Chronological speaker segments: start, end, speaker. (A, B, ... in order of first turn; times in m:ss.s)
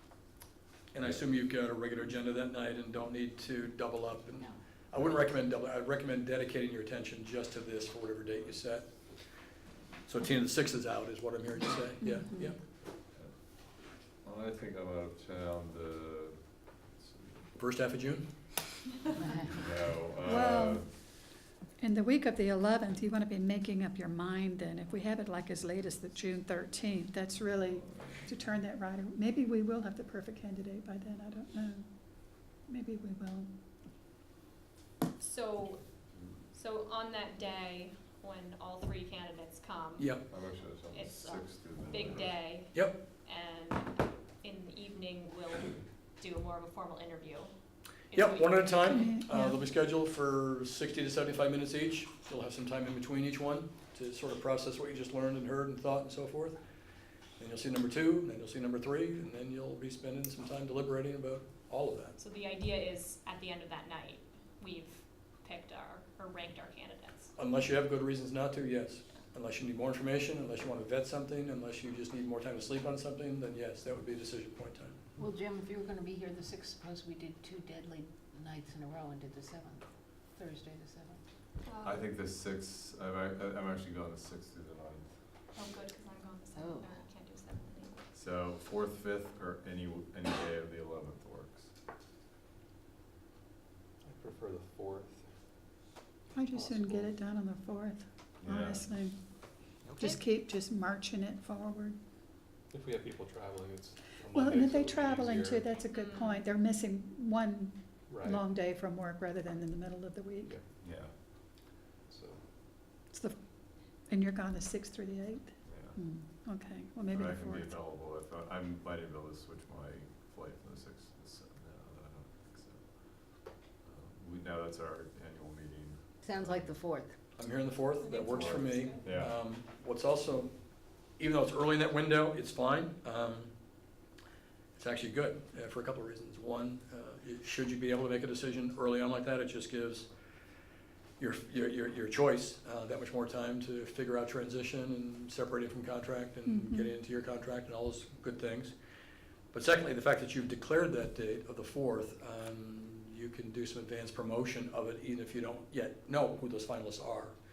0:00.9-0:09.1 A
0:04.4-0:05.1 B
0:10.1-0:12.6 A
0:12.0-0:12.5 C
0:13.1-0:17.5 D
0:17.6-0:18.3 A
0:19.2-0:19.6 B
0:19.4-0:20.9 D
0:20.2-0:20.8 C
0:21.8-0:31.9 C
0:27.8-0:28.3 D
0:32.6-0:33.5 C
0:35.2-0:36.0 E
0:36.1-0:36.4 D
0:36.5-0:47.5 E
0:40.0-0:40.3 A
0:40.3-0:42.4 D
0:42.7-0:43.0 A
0:48.1-0:49.1 E
0:48.1-0:56.6 A
0:48.9-0:49.6 C
0:57.4-1:02.2 A
1:02.2-1:07.3 E
1:07.4-1:15.0 A
1:15.2-1:21.2 B
1:21.6-1:22.0 E
1:21.8-1:25.2 D
1:25.5-1:28.0 E
1:26.5-1:27.0 B
1:28.1-1:31.7 D
1:34.0-1:35.3 F
1:36.3-1:39.2 C
1:36.5-1:37.1 F
1:38.4-1:38.9 D
1:40.0-1:42.0 C
1:42.7-1:45.7 F
1:44.3-1:50.6 C
1:45.9-1:46.4 E
1:48.1-1:48.4 F
1:50.7-1:51.1 D
1:52.1-1:52.4 F
1:53.1-1:57.8 C
1:55.6-1:56.0 D
1:57.1-2:06.8 D
2:06.2-2:07.2 B
2:07.4-2:13.5 A
2:08.0-2:09.0 E
2:08.4-2:09.4 D
2:14.8-2:20.1 A
2:21.2-2:28.7 A
2:26.5-2:26.9 C
2:29.5-2:37.4 A